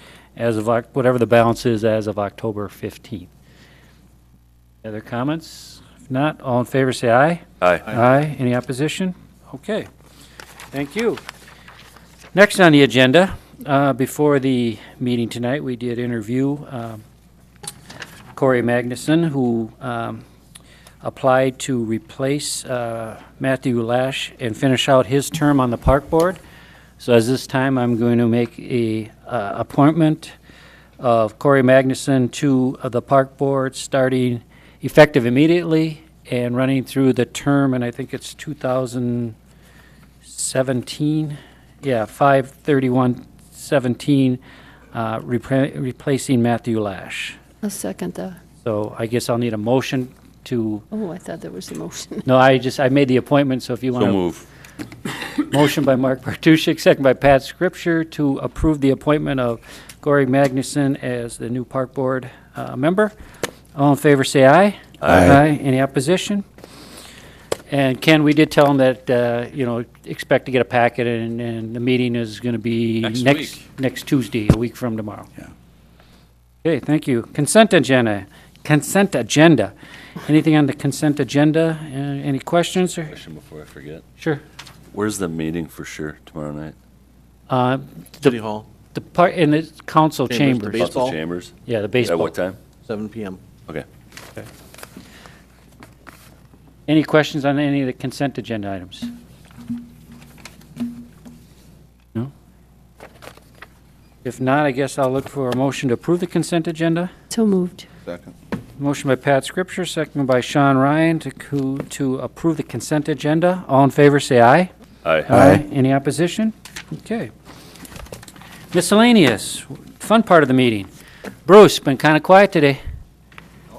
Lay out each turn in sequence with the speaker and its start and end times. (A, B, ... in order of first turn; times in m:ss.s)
0:00.4-0:03.3 A
0:04.8-0:09.9 A
0:10.7-0:11.2 A
0:12.3-0:17.0 A
0:18.4-0:20.2 A
0:21.0-0:26.4 A
0:27.0-0:30.4 A
0:31.0-0:39.4 A
0:40.2-0:44.4 A
0:44.9-0:47.4 A
0:47.6-0:48.4 B
0:48.6-0:50.9 A
0:50.9-0:52.3 B
0:52.3-0:54.2 A
0:54.0-0:54.4 C
0:55.4-1:03.1 A
1:03.8-1:06.4 A
1:05.0-1:05.4 C
1:07.7-1:15.3 A
1:16.6-1:19.7 A
1:20.2-1:23.2 A
1:23.1-1:24.0 C
1:24.9-1:26.8 C
1:27.5-1:28.4 A
1:28.2-1:28.7 D
1:28.9-1:30.8 A
1:30.3-1:31.2 D
1:30.8-1:32.6 C
1:31.7-1:32.3 A
1:32.9-1:33.4 D
1:36.9-1:39.1 A
1:44.2-1:47.1 A
1:47.3-1:47.9 B
1:48.8-1:54.7 A
1:55.0-1:55.4 C
1:55.3-1:57.3 A
1:58.7-2:00.9 A
2:01.4-2:02.8 A